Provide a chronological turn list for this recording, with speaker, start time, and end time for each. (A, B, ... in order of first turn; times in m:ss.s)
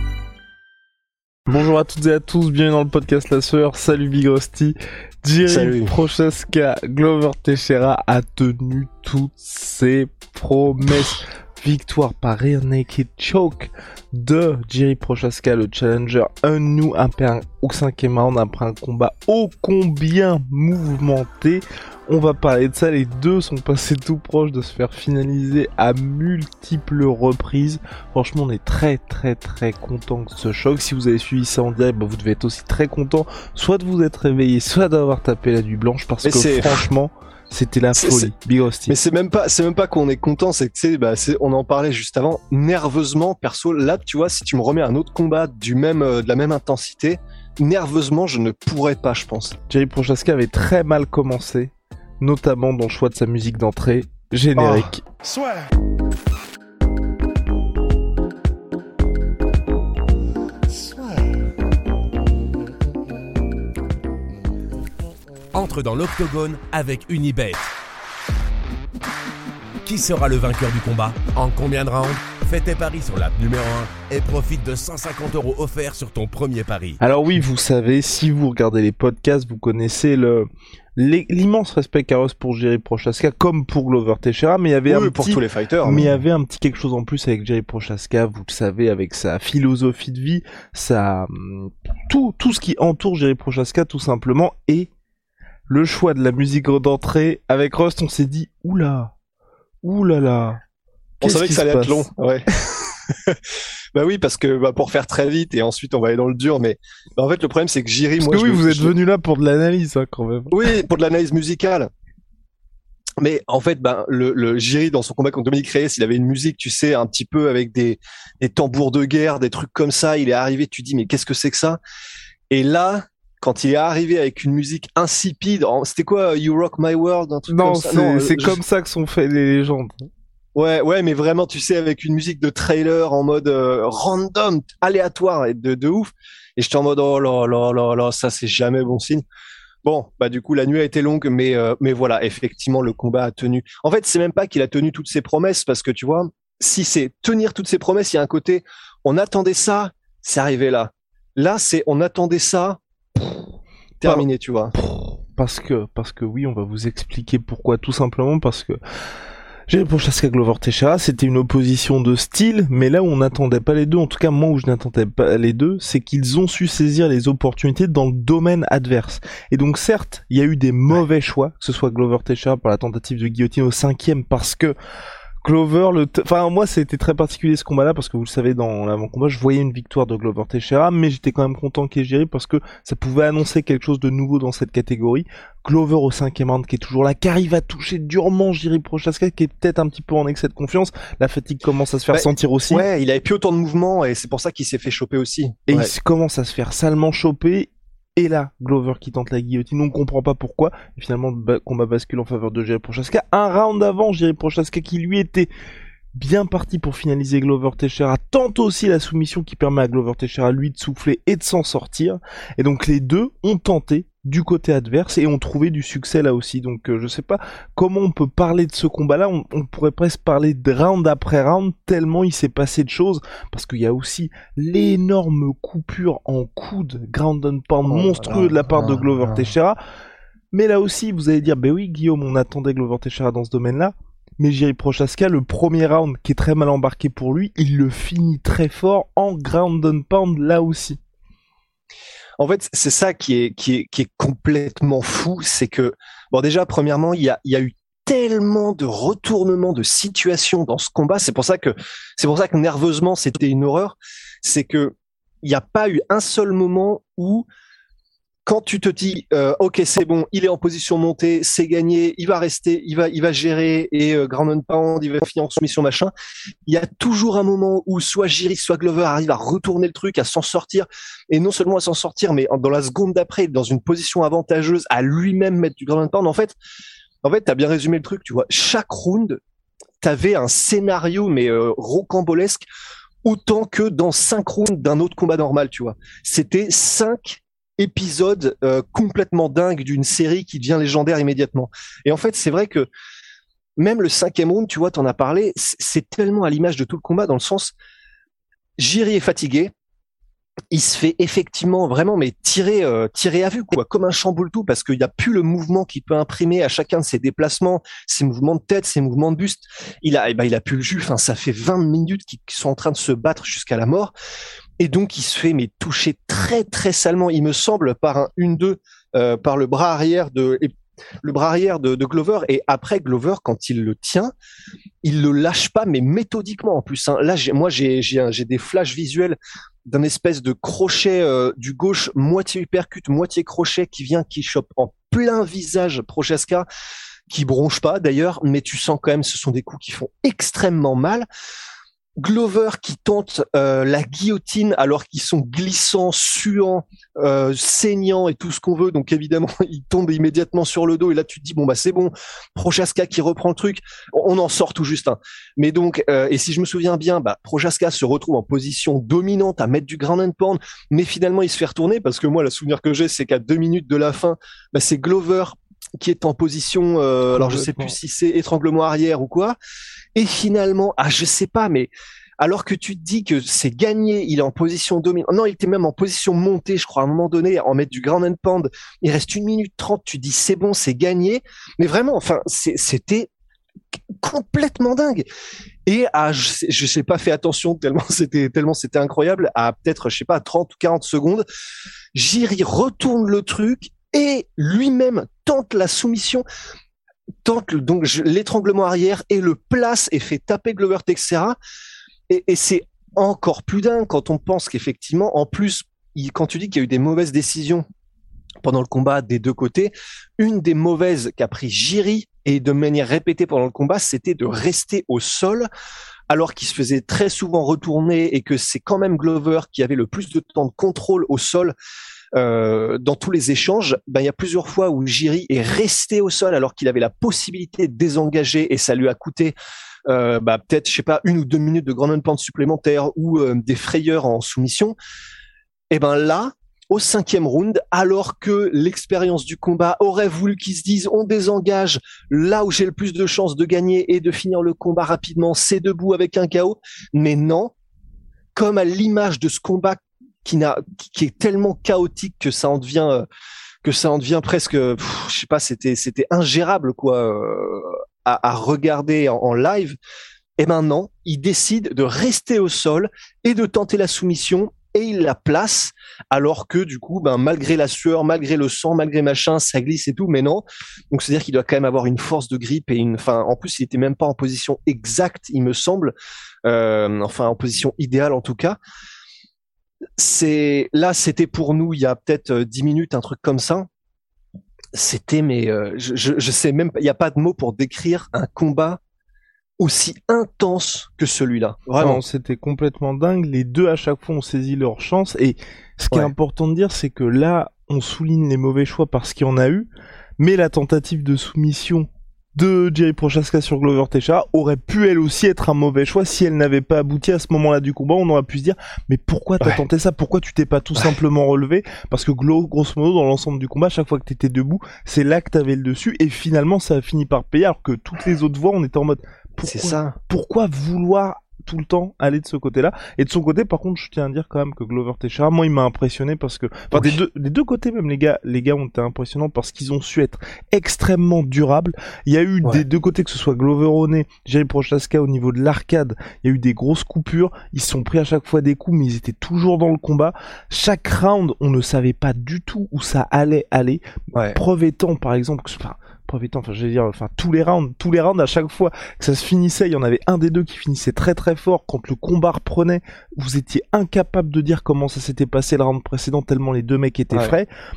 0:01.5-0:38.9 A
0:05.5-0:05.9 B
0:36.2-0:36.8 B
0:38.0-0:38.3 B
0:38.9-0:49.6 B
0:49.7-0:55.0 A
0:54.6-0:54.9 B
1:05.5-1:07.7 C
1:09.8-1:17.0 C
1:17.0-1:20.5 A
1:21.0-1:34.9 A
1:24.9-1:26.2 B
1:35.7-1:39.1 A
1:39.8-1:40.6 A
1:41.2-1:42.0 A
1:41.2-1:42.5 B
1:43.9-1:48.9 B
1:48.2-1:50.6 A
1:50.5-1:51.9 B
1:53.2-2:01.8 B
2:02.5-2:08.6 B
2:07.5-2:09.9 A
2:10.6-2:19.2 B
2:19.8-2:33.4 B
2:34.0-2:34.8 B
2:34.1-2:38.8 A
2:39.7-2:54.7 A
2:55.4-3:12.8 A
3:12.1-3:15.9 B
3:15.7-3:25.5 A
3:26.2-3:49.8 A
3:47.9-3:49.4 B
3:50.5-4:01.0 A
4:02.4-4:17.5 B
4:18.5-4:26.1 B
4:26.7-4:36.6 B
4:37.2-4:39.4 B
4:40.0-4:42.6 B
4:43.2-4:52.9 B
4:53.8-4:57.7 B
4:58.8-4:59.7 B
5:00.7-5:14.1 B
5:14.8-5:20.7 B
5:21.2-5:24.3 B
5:25.0-5:36.7 B
5:37.3-5:41.3 B
5:42.2-6:09.6 B
6:07.4-6:07.9 A
6:10.2-6:23.3 B
6:24.2-6:25.3 B
6:25.9-6:31.4 B
6:32.1-6:36.4 B
6:37.4-6:41.6 B
6:42.3-6:47.8 B
6:48.6-6:55.7 B
6:56.3-7:01.8 B
7:02.4-7:09.6 B
7:10.1-7:15.0 B
7:15.9-7:27.7 B
7:28.6-7:33.2 B
7:33.8-7:40.0 B
7:40.6-7:58.8 B
8:00.2-8:03.9 B
8:05.0-8:09.0 B
8:09.8-8:12.2 B
8:12.1-8:19.9 A
8:20.4-9:04.0 A
8:39.6-8:40.2 B
8:46.9-8:47.2 B
9:04.3-9:04.6 B
9:04.6-9:17.7 A
9:17.3-9:17.6 B